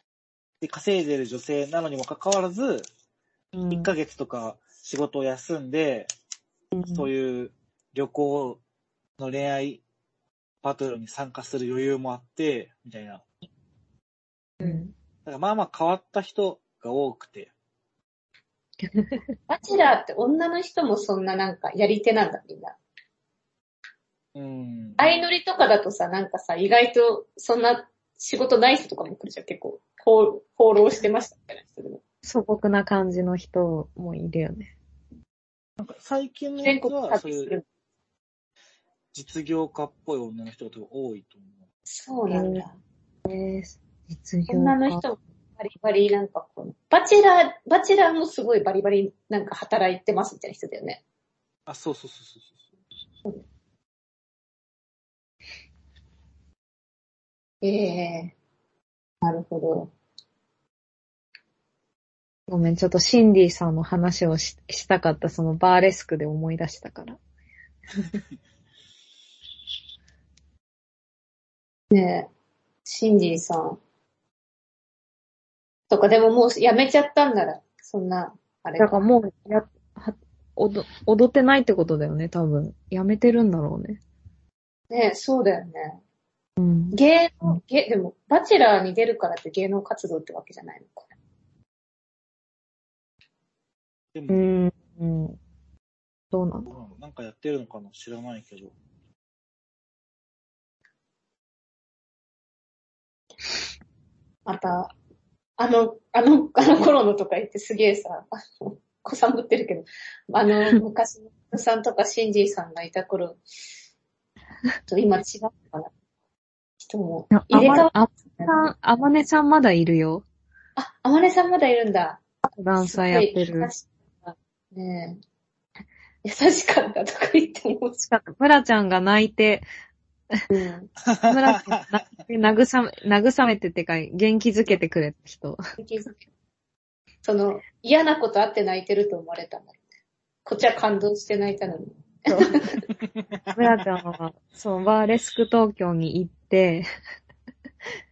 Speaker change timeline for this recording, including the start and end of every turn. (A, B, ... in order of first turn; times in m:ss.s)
0:00.6-0:02.9 A
0:03.5-0:03.9 B
0:03.7-0:06.1 A
0:06.7-0:07.1 B
0:06.9-0:08.6 A
0:09.2-0:09.8 A
0:10.6-0:13.2 A
0:14.6-0:14.9 C
0:15.2-0:17.5 A
0:18.9-0:19.2 B
0:19.5-0:22.8 C
0:24.4-0:25.2 A
0:25.0-0:32.0 C
0:32.2-0:34.7 B
0:35.8-0:37.5 A
0:36.6-0:37.6 C
0:39.1-0:41.6 A
0:41.9-0:42.8 C
0:42.3-0:42.7 B
0:43.3-0:45.0 B
0:44.5-0:51.0 C
0:51.7-0:52.7 A
0:57.6-0:58.3 C
0:59.2-0:59.9 C
1:02.5-1:07.2 B
1:11.9-1:12.3 C
1:12.9-1:13.8 C
1:15.9-1:19.0 C
1:18.8-1:24.0 B
1:24.9-1:26.0 C
1:26.6-1:27.6 B
1:26.9-1:31.1 C
1:34.1-1:34.5 A
1:34.3-1:35.4 B
1:36.3-1:36.7 B
1:36.7-1:38.7 A
1:44.5-1:44.9 C
1:45.6-1:53.4 C
1:54.9-1:55.9 C
1:56.8-1:58.6 C
1:57.3-2:00.2 B
2:00.8-2:02.2 C
2:02.5-2:03.7 B
2:02.8-2:05.2 C
2:06.2-2:08.0 C
2:08.0-2:09.6 B
2:10.5-2:10.9 C
2:11.0-2:12.0 A
2:11.3-2:15.6 B
2:15.8-2:16.3 C
2:17.2-2:19.8 C
2:20.4-2:22.9 C
2:22.3-2:22.6 B
2:23.5-2:26.8 B